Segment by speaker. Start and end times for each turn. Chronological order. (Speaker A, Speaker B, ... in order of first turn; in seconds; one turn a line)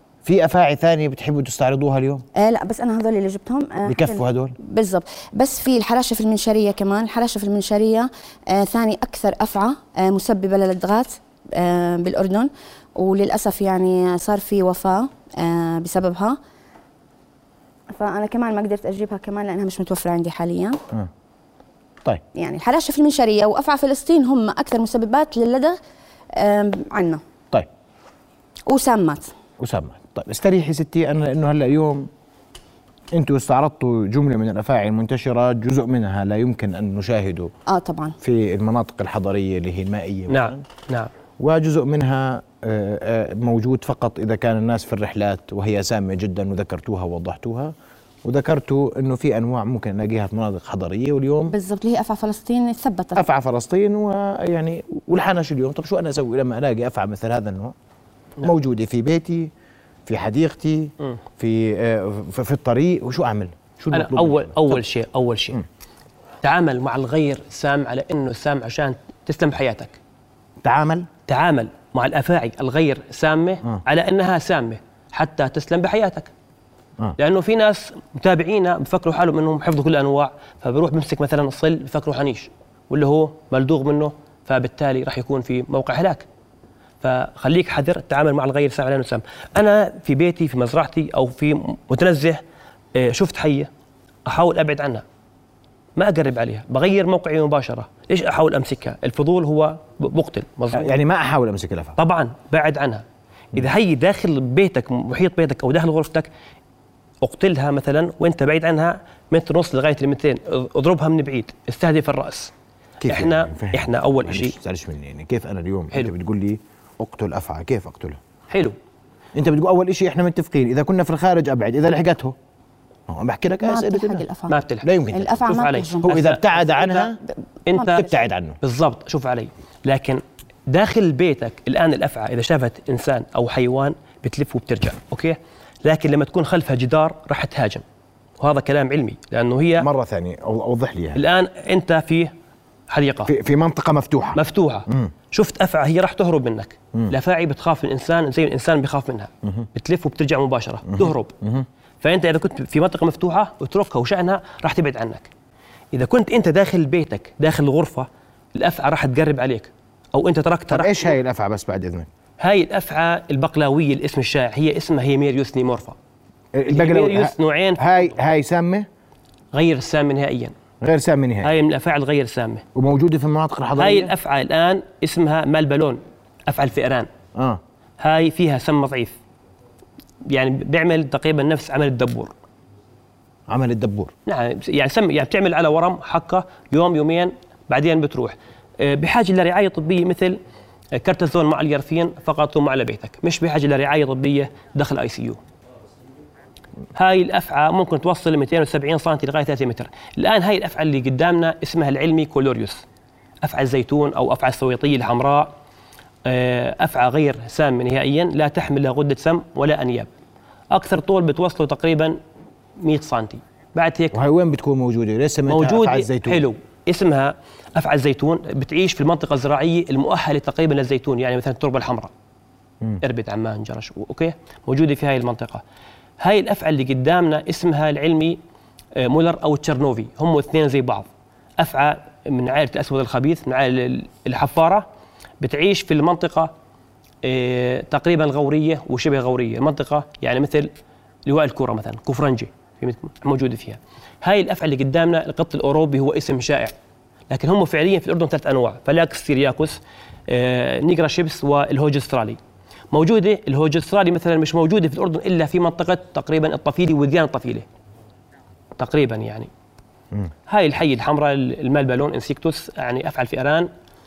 Speaker A: 0.2-2.2
Speaker B: 2.3-16.4
Speaker A: 3.8-4.5
Speaker B: 17.9-20.8
Speaker B: 22.3-25.8
Speaker B: 26.4-27.2
Speaker B: 28.7-29.3
Speaker A: 29.6-32.1
Speaker A: 33.1-37.5
Speaker B: 37.7-38.1
Speaker A: 38.2-40.6
Speaker C: 40.3-41.1
Speaker A: 41.4-47.7
Speaker A: 48.2-51.5
Speaker B: 51.5-53.2
Speaker A: 53.1-57.7
Speaker A: 58.4-59.5
Speaker A: 60.0-64.8
Speaker C: 63.9-65.6
Speaker C: 66.4-70.0
Speaker A: 70.6-71.1
Speaker C: 71.3-76.3
Speaker C: 77.2-86.2
Speaker C: 87.0-92.4
Speaker C: 92.9-93.7
Speaker C: 94.2-95.0
Speaker C: 96.0-100.9
Speaker A: 100.7-102.0
Speaker C: 102.0-103.0
Speaker C: 103.5-106.3
Speaker C: 107.2-112.5
Speaker A: 113.0-118.2
Speaker C: 113.0-114.5
Speaker C: 118.5-118.7
Speaker A: 119.3-122.3
Speaker A: 123.1-124.2
Speaker B: 123.6-124.5
Speaker C: 124.5-124.9
Speaker A: 124.8-125.5
Speaker B: 125.1-126.1
Speaker C: 125.4-127.1
Speaker A: 126.0-127.2
Speaker C: 127.7-128.1
Speaker B: 127.7-128.1
Speaker A: 127.8-128.6
Speaker C: 128.6-137.8
Speaker C: 138.4-139.9
Speaker A: 139.8-141.2
Speaker C: 141.2-142.3
Speaker C: 142.9-143.3
Speaker A: 143.3-145.1
Speaker C: 144.3-151.3
Speaker A: 150.9-151.7
Speaker C: 152.0-155.3
Speaker C: 155.9-161.0
Speaker A: 160.7-162.1
Speaker C: 162.4-165.9
Speaker A: 166.5-168.9
Speaker C: 166.7-168.0
Speaker C: 169.5-170.5
Speaker A: 170.8-171.5
Speaker C: 171.4-172.6
Speaker A: 172.7-174.1
Speaker C: 173.8-177.1
Speaker A: 177.3-177.6
Speaker C: 178.0-179.1
Speaker C: 180.3-182.3
Speaker A: 183.5-184.1
Speaker C: 184.2-190.4
Speaker C: 190.9-195.4
Speaker C: 196.9-202.8
Speaker C: 203.4-205.5
Speaker C: 206.2-210.1
Speaker C: 210.7-212.2
Speaker C: 212.8-214.2
Speaker A: 214.1-216.4
Speaker C: 215.5-222.1
Speaker C: 223.0-225.6
Speaker C: 226.2-228.4
Speaker C: 228.9-231.1
Speaker C: 231.6-234.8
Speaker C: 235.4-236.5
Speaker C: 237.2-240.7
Speaker C: 241.2-246.7
Speaker C: 247.3-252.4
Speaker C: 252.9-257.6
Speaker C: 258.8-259.5
Speaker C: 260.5-263.7